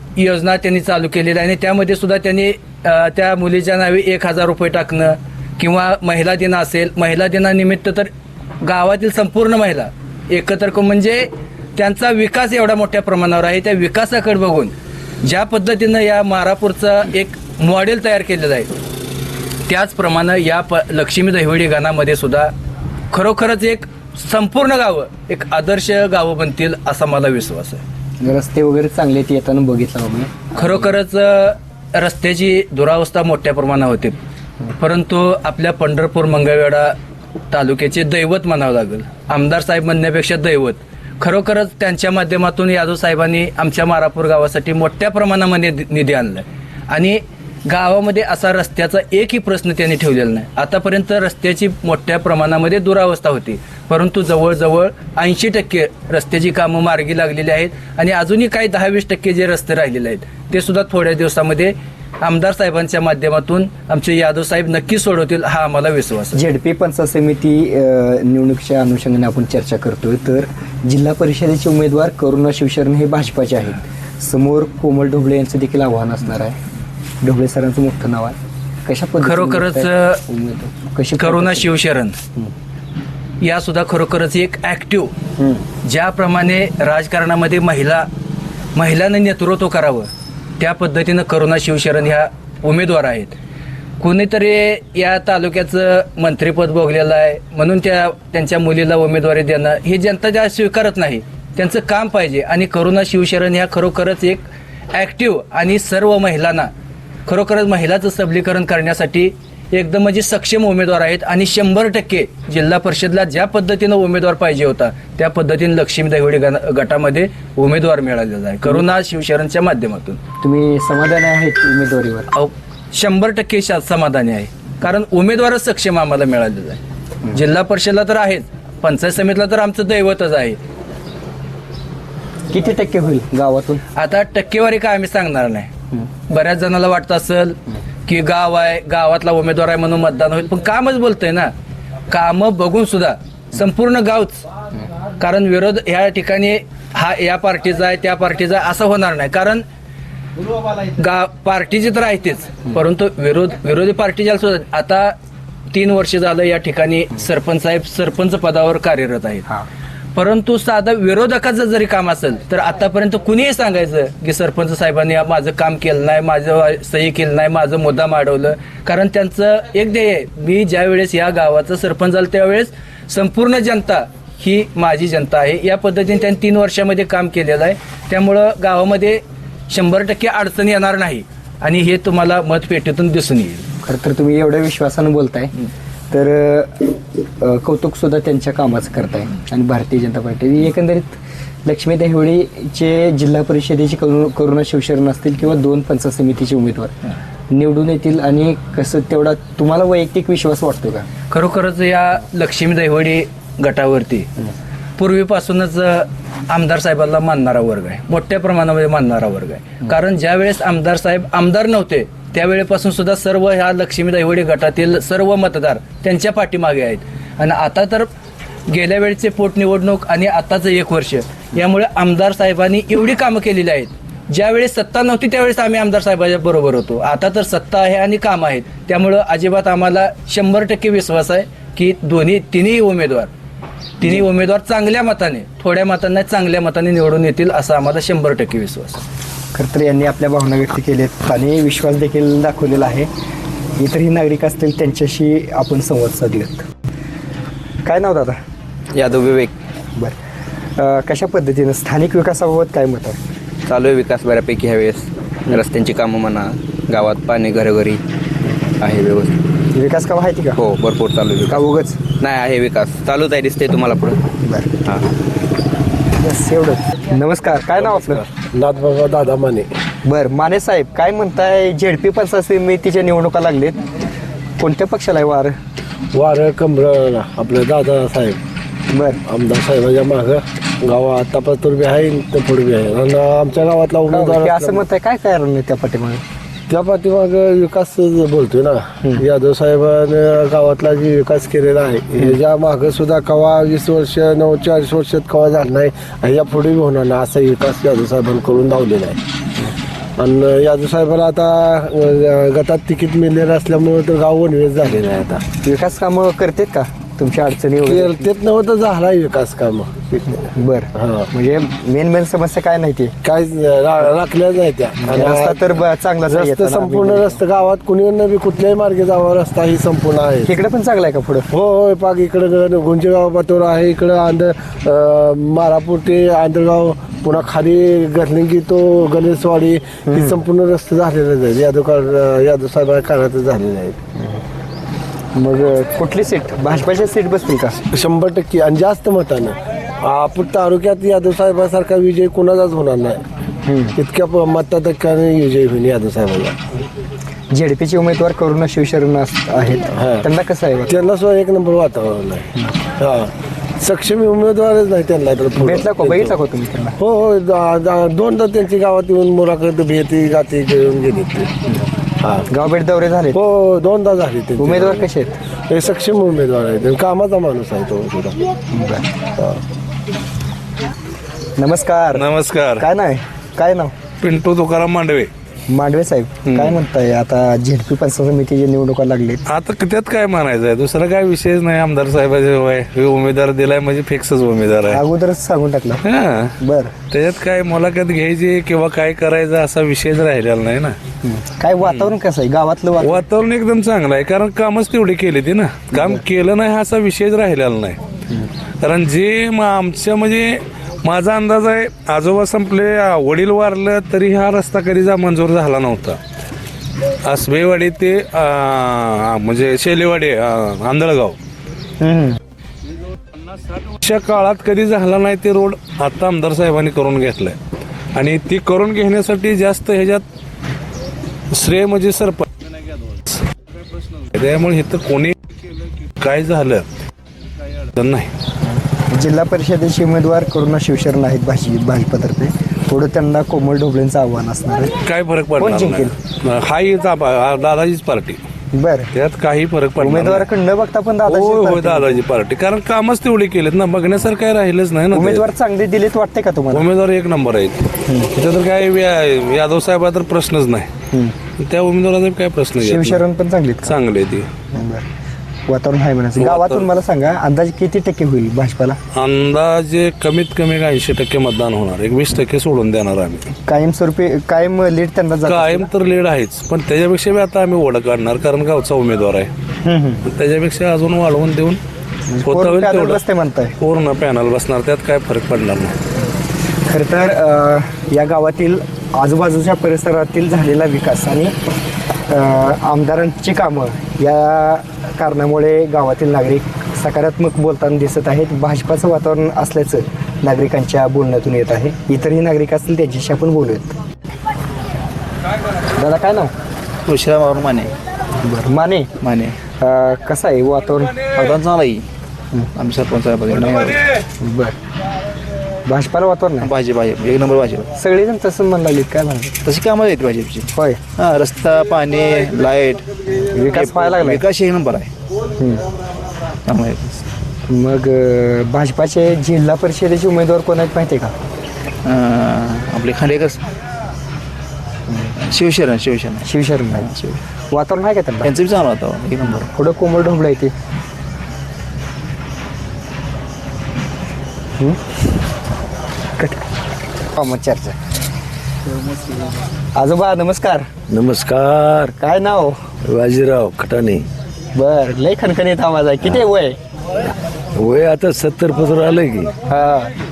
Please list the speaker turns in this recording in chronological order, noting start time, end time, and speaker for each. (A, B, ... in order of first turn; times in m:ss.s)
0:00.2-0:08.1 A
0:08.6-0:18.7 A
0:19.7-0:22.5 A
0:23.1-0:27.8 A
0:28.2-0:30.9 B
0:30.5-0:34.2 A
0:34.8-0:36.9 A
0:37.5-1:06.4 A
1:06.3-1:16.6 B
1:17.2-1:21.8 B
1:19.2-1:20.2 A
1:21.2-1:22.2 A
1:23.4-1:25.1 A
1:25.4-1:25.6 B
1:25.8-1:28.1 A
1:28.7-1:30.1 A
1:30.6-1:33.3 A
1:34.0-1:46.7 A
1:47.2-2:00.2 A
2:00.4-2:02.3 B
2:02.3-2:06.8 A
2:07.3-2:10.6 A
2:12.5-2:13.8 B
2:14.0-2:15.7 A
2:16.3-2:21.5 A
2:22.1-2:24.4 A
2:25.2-2:29.6 A
2:31.0-2:35.1 A
2:35.7-2:39.4 A
2:40.1-3:03.6 A
3:03.8-3:05.5 B
3:06.1-3:16.9 B
3:17.5-3:21.1 B
3:21.3-3:24.3 A
3:25.0-3:38.1 A
3:38.7-3:53.3 A
3:54.0-3:59.0 A
3:59.5-4:03.1 B
4:03.8-4:06.6 B
4:07.8-4:08.4 B
4:08.9-4:09.5 C
4:10.8-4:13.2 B
4:13.7-4:18.0 C
4:18.8-4:19.3 C
4:19.7-4:20.6 B
4:20.6-4:24.2 C
4:21.5-4:22.0 B
4:24.4-4:24.7 B
4:26.2-4:28.2 B
4:28.5-4:29.7 D
4:30.0-4:33.8 B
4:34.6-4:35.6 B
4:36.1-4:38.4 D
4:38.9-4:39.2 B
4:39.3-4:44.8 D
4:44.1-4:46.2 B
4:46.7-4:59.2 D
5:00.2-5:05.4 D
5:05.6-5:08.3 B
5:07.8-5:10.3 D
5:10.3-5:13.1 B
5:11.0-5:11.3 D
5:13.2-5:20.6 D
5:15.0-5:17.4 B
5:20.4-5:21.5 B
5:21.5-5:34.0 D
5:30.1-5:30.4 B
5:34.2-5:34.4 B
5:35.3-5:37.8 B
5:37.9-5:43.2 D
5:43.6-5:43.9 B
5:43.9-5:46.6 D
5:47.5-5:50.9 B
5:50.0-5:50.3 D
5:50.9-5:52.5 D
5:53.0-5:56.4 D
5:55.6-5:57.0 B
5:57.0-6:01.5 D
6:02.2-6:02.5 D
6:02.5-6:03.4 B
6:03.3-6:05.0 D
6:04.6-6:05.4 B
6:05.7-6:08.4 D
6:08.7-6:09.0 B
6:09.4-6:09.6 D
6:11.6-6:12.2 B
6:12.1-6:12.8 E
6:12.8-6:13.9 B
6:14.2-6:15.3 E
6:15.7-6:19.4 B
6:16.5-6:16.7 E
6:19.5-6:25.0 E
6:24.9-6:26.0 B
6:26.0-6:26.5 E
6:26.6-6:26.9 B
6:27.1-6:31.0 E
6:31.2-6:33.2 B
6:31.8-6:32.1 E
6:33.0-6:38.0 E
6:35.9-6:36.2 B
6:38.8-6:46.2 E
6:47.2-6:51.4 E
6:52.0-6:52.4 B
6:53.8-6:57.6 E
6:58.1-7:00.2 E
7:01.5-7:02.5 E
7:04.3-7:05.4 E
7:06.2-7:06.8 E
7:08.0-7:08.3 E
7:08.6-7:14.9 B
7:15.0-7:18.4 E
7:15.6-7:16.1 B
7:18.7-7:19.1 B
7:19.1-7:20.4 E
7:20.0-7:22.2 B
7:21.2-7:25.4 E
7:25.1-7:26.9 B
7:26.7-7:27.8 E
7:28.4-7:30.9 E
7:31.6-7:33.2 E
7:32.8-7:34.0 B
7:33.8-7:34.5 E
7:34.7-7:35.0 B
7:35.7-7:39.0 B
7:36.4-7:36.9 E
7:39.2-7:43.4 E
7:43.6-7:45.9 B
7:45.4-7:49.5 E
7:49.8-7:50.2 B
7:50.3-7:51.8 E
7:52.3-7:53.7 B
7:52.4-7:53.2 E
7:53.8-7:55.9 E
7:56.9-8:01.5 B
8:02.3-8:13.9 B
8:16.0-8:16.5 B
8:17.1-8:17.9 F
8:18.4-8:19.1 B
8:19.2-8:19.5 F
8:19.8-8:21.2 B
8:21.3-8:22.0 F
8:22.8-8:24.0 F
8:24.4-8:24.7 B
8:25.8-8:26.7 B
8:26.6-8:27.8 F
8:27.9-8:29.5 B
8:29.6-8:30.7 F
8:30.7-8:31.0 B
8:31.2-8:33.0 F
8:33.4-8:34.4 B
8:33.7-8:35.1 F
8:35.6-8:35.8 B
8:36.7-8:37.2 F
8:37.7-8:41.3 B
8:42.0-8:43.6 F
8:45.1-8:45.4 B
8:45.4-8:46.4 F
8:46.4-8:47.1 B
8:47.0-8:47.4 F
8:47.7-8:48.5 B
8:48.4-8:49.7 F
8:49.4-8:50.7 B
8:56.4-8:56.6 B
8:57.3-8:58.0 B
8:59.9-9:00.8 B
9:01.1-9:02.1 G
9:02.2-9:02.8 B
9:03.0-9:04.2 G
9:04.7-9:06.8 B
9:06.2-9:06.5 G
9:07.8-9:09.5 G
9:09.7-9:10.1 B